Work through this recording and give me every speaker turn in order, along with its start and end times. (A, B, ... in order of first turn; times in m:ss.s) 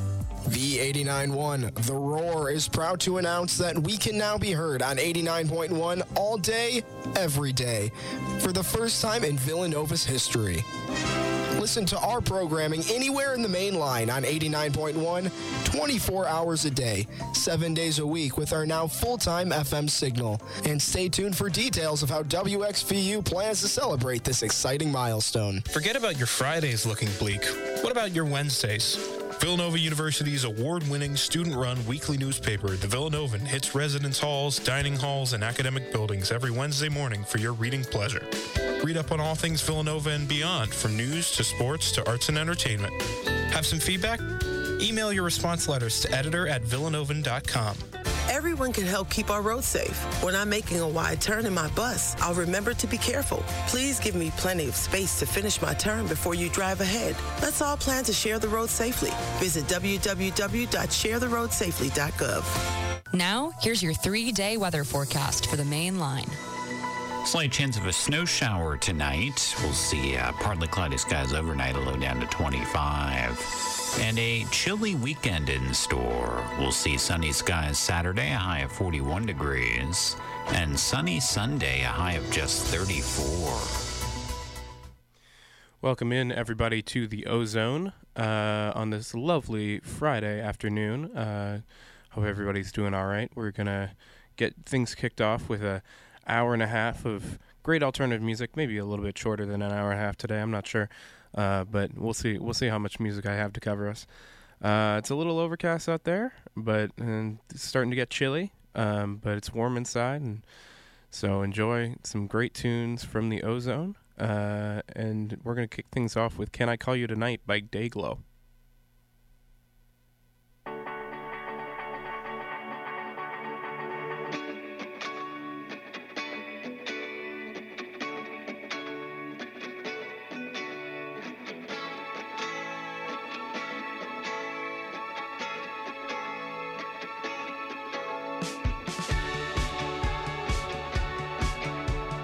0:00.5-0:10.6 A
0:11.6-0:25.6 A
0:25.7-0:38.3 B
0:38.8-0:42.9 B
0:43.5-0:44.2 B
0:44.8-0:47.8 B
0:48.3-1:02.6 C
1:03.1-1:06.4 D
1:07.2-1:13.4 E
1:14.0-1:23.8 E
1:25.8-1:44.1 F
1:44.6-1:50.4 F
1:51.1-1:58.2 F